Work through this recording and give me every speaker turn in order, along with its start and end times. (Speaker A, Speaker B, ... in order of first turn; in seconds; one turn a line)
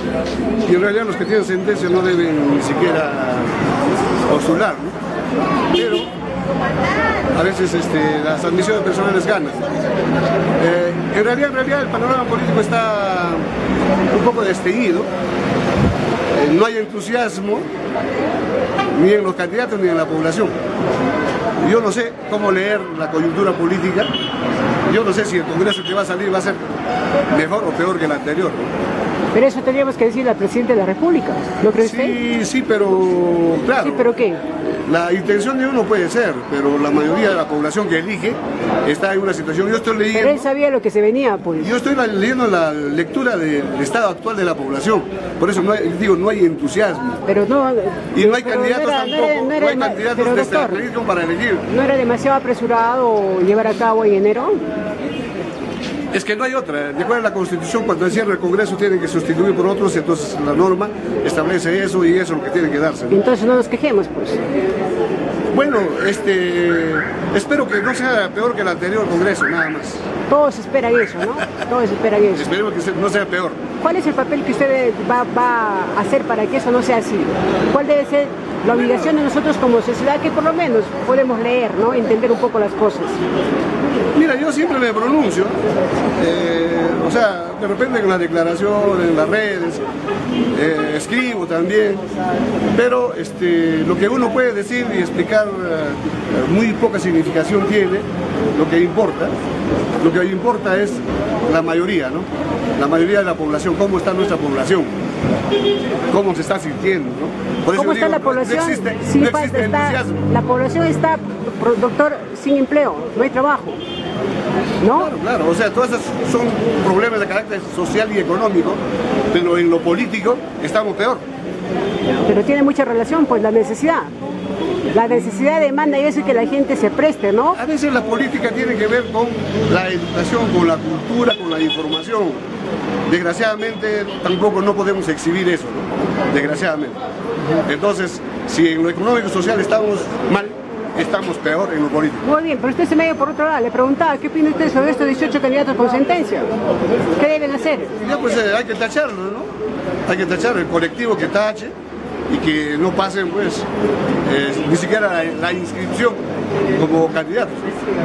Speaker A: 0.7-3.6
Speaker A: 4.3-5.0
Speaker A: 5.7-6.1
Speaker A: 7.3-9.6
Speaker A: 10.6-13.4
Speaker A: 14.1-15.1
Speaker A: 16.3-17.7
Speaker A: 18.9-20.6
Speaker A: 21.6-24.1
Speaker A: 24.9-26.6
Speaker A: 27.3-28.7
Speaker B: 29.3-32.2
Speaker A: 31.8-40.5
Speaker B: 33.8-34.4
Speaker B: 40.1-41.7
Speaker A: 41.6-47.2
Speaker B: 47.3-50.9
Speaker A: 48.1-51.6
Speaker B: 51.7-54.6
Speaker A: 56.1-63.2
Speaker B: 63.1-64.4
Speaker A: 65.5-70.0
Speaker B: 70.3-72.5
Speaker A: 72.3-73.6
Speaker B: 73.8-83.2
Speaker A: 84.2-85.6
Speaker A: 86.2-89.8
Speaker A: 90.5-92.0
Speaker A: 92.7-99.3
Speaker A: 100.0-105.0
Speaker A: 106.1-110.2
Speaker B: 107.8-113.8
Speaker B: 114.8-115.1
Speaker A: 114.9-118.8
Speaker A: 119.3-121.2
Speaker B: 122.2-124.1
Speaker B: 124.9-127.6
Speaker A: 127.5-132.4
Speaker A: 133.1-137.0
Speaker A: 137.7-142.3
Speaker B: 142.2-146.5
Speaker B: 147.2-147.9
Speaker A: 148.0-149.5
Speaker A: 150.1-151.7
Speaker A: 152.3-153.7
Speaker A: 154.3-156.2
Speaker A: 156.7-157.6